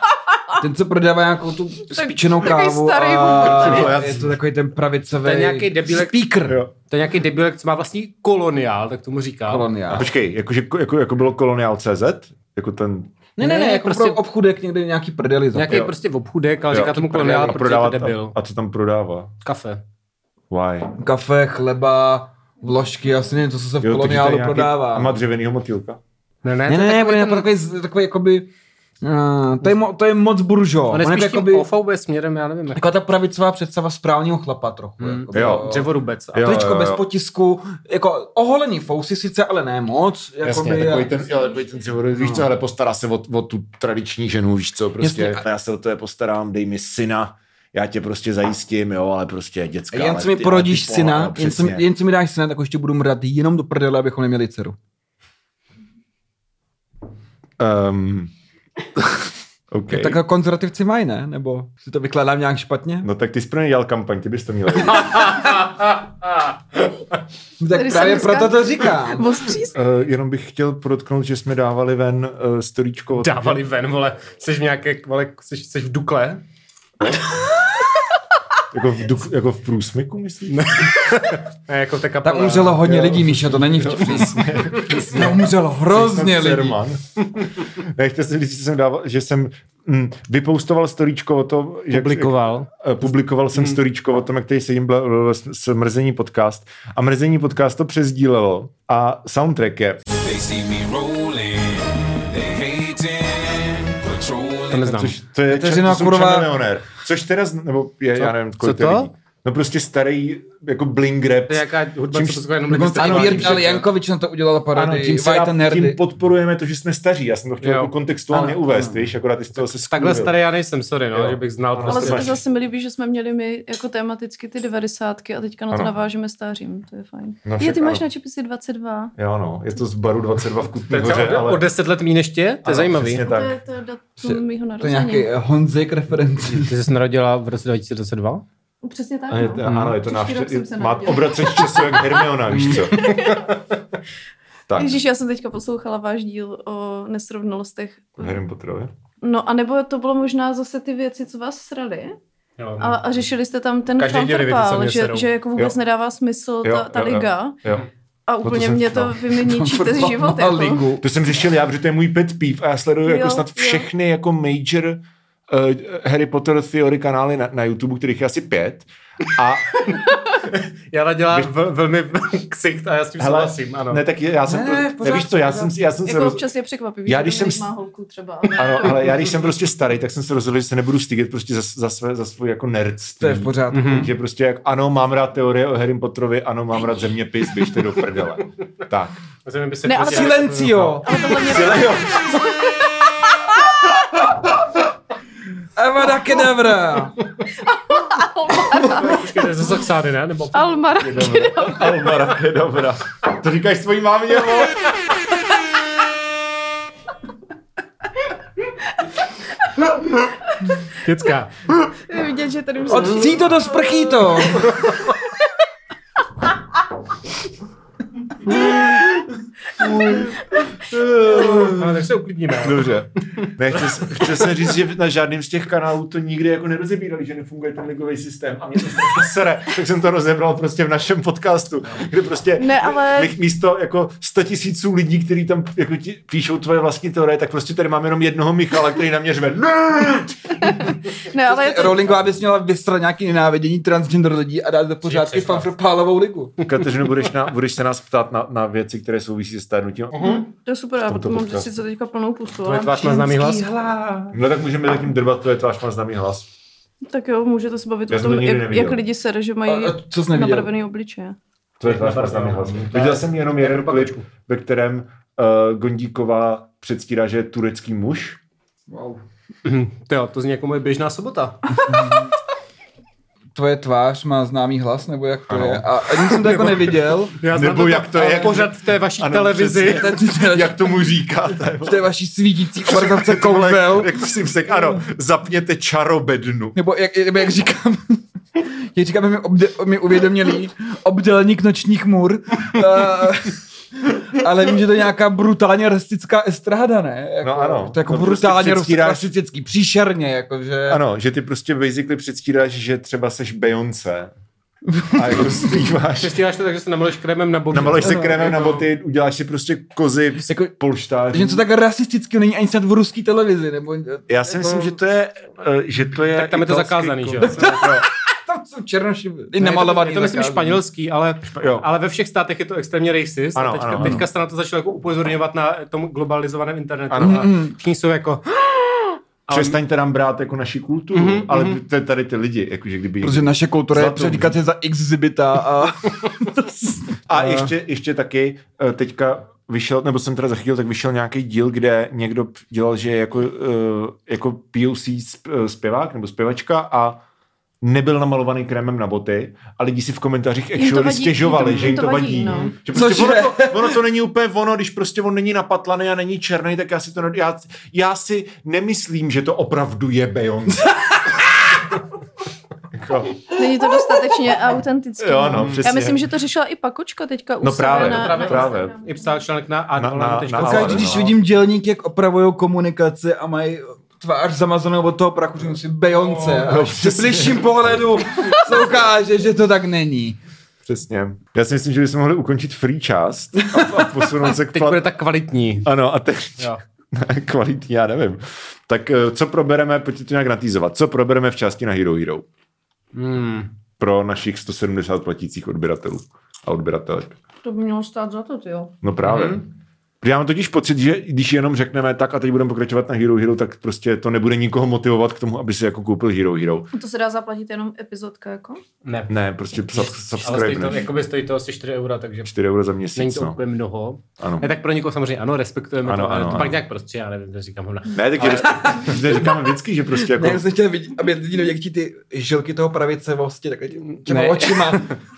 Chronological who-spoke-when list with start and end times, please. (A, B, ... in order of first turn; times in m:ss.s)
0:00.6-0:06.6 A
0:01.9-0:04.0 B
0:03.3-0:04.4 C
0:05.2-0:09.7 D
0:09.5-0:10.1 A
0:09.9-0:14.1 C
0:13.4-0:15.8 A
0:13.4-0:14.1 D
0:15.5-0:18.4 D
0:15.7-0:15.9 C
0:16.7-0:19.3 C
0:19.4-0:19.8 D
0:20.5-0:20.9 C
0:21.0-0:25.2 A
0:23.8-0:26.0 C
0:26.4-0:27.5 D
0:26.7-0:31.7 A
0:30.9-0:32.8 D
0:32.8-0:35.9 A
0:35.0-0:36.7 D
0:35.3-0:35.8 C
0:36.3-0:37.1 C
0:36.4-0:41.1 A
0:40.4-0:51.9 C
0:41.1-0:41.9 B
0:42.2-0:42.5 A
0:45.0-0:45.4 A
0:49.9-0:54.8 A
0:57.6-0:58.3 C
0:59.0-1:00.2 C
0:59.9-1:03.1 A
1:03.0-1:05.4 C
1:04.9-1:06.8 D
1:07.6-1:09.4 A
1:07.7-1:09.8 B
1:09.7-1:13.6 C
1:13.1-1:16.4 D
1:18.7-1:20.9 C
1:20.5-1:22.9 D
1:22.2-1:24.4 A
1:22.8-1:40.0 C
1:25.1-1:26.8 A
1:31.9-1:32.7 D
1:40.2-1:45.0 E
1:44.7-1:45.2 D
1:44.9-1:53.7 C
1:45.5-1:46.5 A
1:48.2-1:49.1 D
1:51.5-1:53.9 D
1:52.7-1:56.0 A
1:54.7-2:00.4 C
1:57.6-1:57.9 D
1:58.3-1:59.1 A
1:59.6-2:02.3 D
2:01.1-2:02.4 C
2:01.9-2:09.1 B
2:07.4-2:08.0 C
2:09.2-2:11.7 C
2:10.9-2:13.2 D
2:12.6-2:13.6 C
2:13.2-2:15.3 B
2:14.2-2:16.7 A
2:16.6-2:18.4 D
2:18.8-2:23.5 B
2:19.3-2:23.1 C
2:19.6-2:20.0 D
2:22.6-2:23.5 D
2:24.7-2:25.0 C
2:24.8-2:28.4 B
2:28.2-2:28.9 C
2:29.2-2:32.2 B
2:32.6-2:33.0 D
2:32.8-2:37.6 B
2:34.0-2:35.3 D
2:36.6-2:37.8 C
2:38.3-2:40.8 B
2:38.4-2:39.3 C
2:39.3-2:41.1 A
2:41.0-2:49.8 C
2:43.0-2:43.9 B
2:50.5-2:54.0 D
2:53.2-2:56.4 C
2:54.5-2:55.7 A
2:56.1-2:59.3 B
2:57.1-2:57.7 C
2:58.6-3:09.2 C
3:03.2-3:04.1 A
3:03.7-3:04.1 D
3:09.5-3:11.0 D
3:09.8-3:12.9 B
3:10.0-3:11.3 A
3:11.4-3:12.3 C
3:15.8-3:17.2 A
3:17.6-3:19.3 B
3:18.7-3:21.6 D
3:20.5-3:22.1 B
3:21.2-3:24.8 C
3:31.0-3:31.5 D
3:32.1-3:34.7 B
3:32.8-3:34.8 A
3:38.5-3:38.8 B
3:40.0-3:40.6 B
3:40.9-3:41.9 A
3:41.2-3:41.5 C
3:41.3-3:43.5 D
3:42.6-4:00.9 C
3:52.6-3:53.4 B
4:00.6-4:02.2 B
4:01.4-4:06.6 A
4:05.0-4:05.7 D
4:06.6-4:10.2 C
4:10.1-4:10.4 D
4:10.2-4:13.2 B
4:11.0-4:11.7 C
4:12.6-4:13.7 D
4:13.0-4:14.4 A
4:14.3-4:16.5 C
4:17.1-4:21.4 B
4:18.1-4:19.0 C
4:19.7-4:20.7 A
4:21.8-4:28.4 C
4:21.8-4:24.3 D
4:28.9-4:29.2 A
4:29.6-4:31.8 D
4:31.9-4:32.3 A
4:33.5-4:37.4 A
4:35.5-4:36.6 C
4:36.4-4:40.1 D
4:37.5-4:42.1 C
4:39.9-4:41.2 A
4:41.8-4:45.0 A
4:42.9-4:46.8 C
4:46.8-5:01.0 A
4:57.4-4:59.3 C
5:00.9-5:04.3 C
5:04.9-5:05.4 A
5:05.1-5:06.3 C
5:06.2-5:08.9 D
5:07.7-5:11.6 C
5:10.5-5:10.7 A
5:11.3-5:15.0 A
5:14.3-5:18.1 C
5:16.4-5:17.9 D
5:17.4-5:20.8 A
5:19.6-5:29.8 D
5:21.5-5:21.9 C
5:23.6-5:24.3 C
5:27.1-5:27.5 C
5:27.2-5:27.8 A
5:29.5-5:34.6 C
5:31.1-5:31.8 D
5:33.2-5:37.2 A
5:37.3-5:47.2 C
5:47.8-6:00.9 C
5:50.8-5:52.7 B
5:52.9-5:54.0 A
6:00.7-6:01.4 A
6:02.9-6:03.4 C
6:03.5-6:09.3 B
6:05.2-6:06.3 C
6:07.6-6:09.0 C
6:07.8-6:11.3 D
6:10.0-6:11.4 C
6:10.6-6:20.4 A
6:16.2-6:18.2 C
6:20.8-6:25.0 C
6:23.6-6:24.3 A
6:24.7-6:25.9 D
6:25.8-6:32.5 C
6:33.1-6:33.7 D
6:34.0-6:37.4 C
6:37.6-6:38.9 B
6:39.0-6:39.6 C
6:39.2-6:39.6 D
6:40.2-6:46.9 C
6:46.9-6:48.8 B
6:49.0-6:49.3 D
6:49.3-6:51.1 C
6:49.9-6:52.5 D
6:52.5-6:53.6 C
6:53.2-6:59.1 D
6:54.4-6:54.7 C
6:56.0-6:56.8 C
6:58.1-7:00.6 C
6:58.4-6:59.6 A
7:00.2-7:05.2 A
7:04.2-7:05.0 D